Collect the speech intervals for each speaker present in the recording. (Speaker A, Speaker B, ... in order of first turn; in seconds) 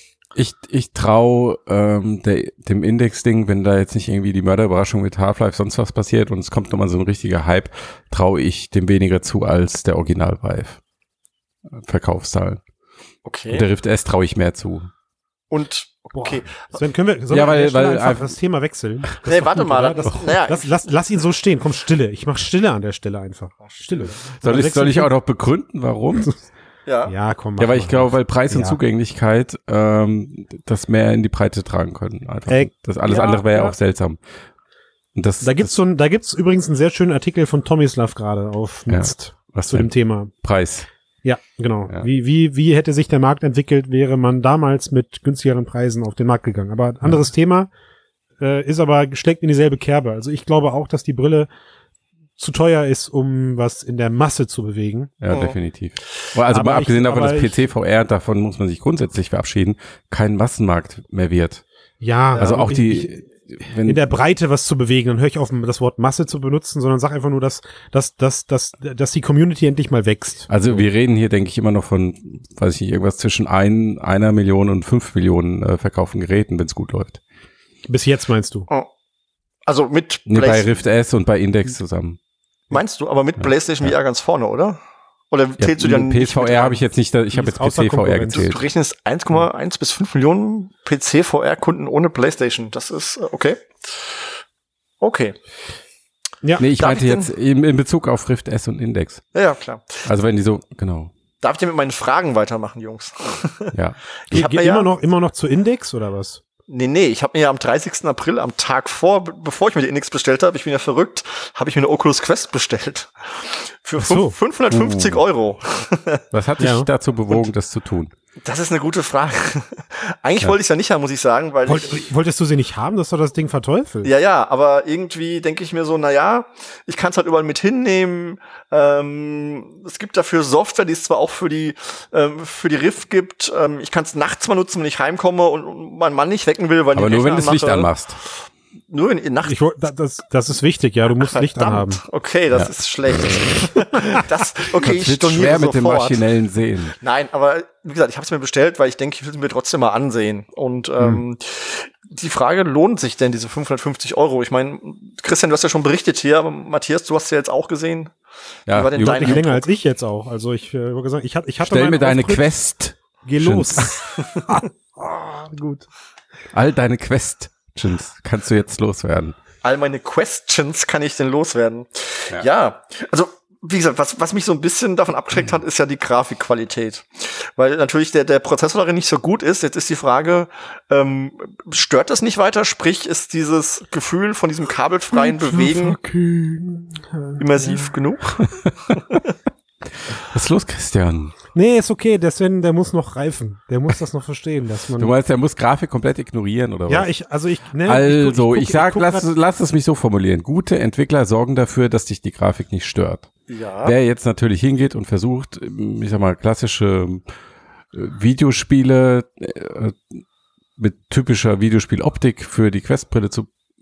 Speaker A: 0.4-10.8, 11.7-12.6, 13.5-14.9, 17.3-18.4, 20.0-20.4, 24.4-26.3, 27.6-34.2, 35.1-35.7, 38.9-40.9, 55.2-61.6, 62.4-64.0, 70.5-77.2, 80.3-82.2, 83.4-84.0, 85.6-88.6, 96.6-99.2, 100.0-101.1, 103.7-104.0, 114.7-115.2, 116.3-118.1, 136.9-138.2, 142.5-143.5, 144.8-147.0, 158.7-159.4, 161.6-164.1, 166.5-169.4, 190.1-191.3, 195.0-197.1, 197.8-203.3, 203.8-207.2, 207.9-210.2, 210.8-213.5
Speaker B: 13.2-13.7, 15.5-16.7, 19.3-20.8, 23.6-24.2, 26.9-27.1, 33.1-33.4, 55.3-55.6, 79.7-80.7, 82.7-84.8, 85.3-86.8, 88.3-94.3, 95.0-95.3, 96.8-97.3, 99.3-100.0, 101.4-103.7, 104.3-104.9, 106.7-116.2, 118.4-122.1, 124.0-139.6, 141.2-146.2, 147.0-158.1, 158.7-159.6, 169.6-186.0, 187.4-188.5, 203.5-203.9
Speaker C: 16.1-25.1, 27.1-28.8, 32.5-33.7, 35.4-40.3, 41.2-47.7, 48.4-51.5, 52.4-55.1, 56.5-57.6, 62.0-63.3, 63.8-70.8, 77.9-78.7, 87.3-88.5, 104.3-106.4, 114.0-114.4, 116.6-116.9, 121.7-124.1, 139.4-142.0, 159.0-162.5, 163.2-165.9, 185.1-187.9, 191.5-195.2, 196.9-199.3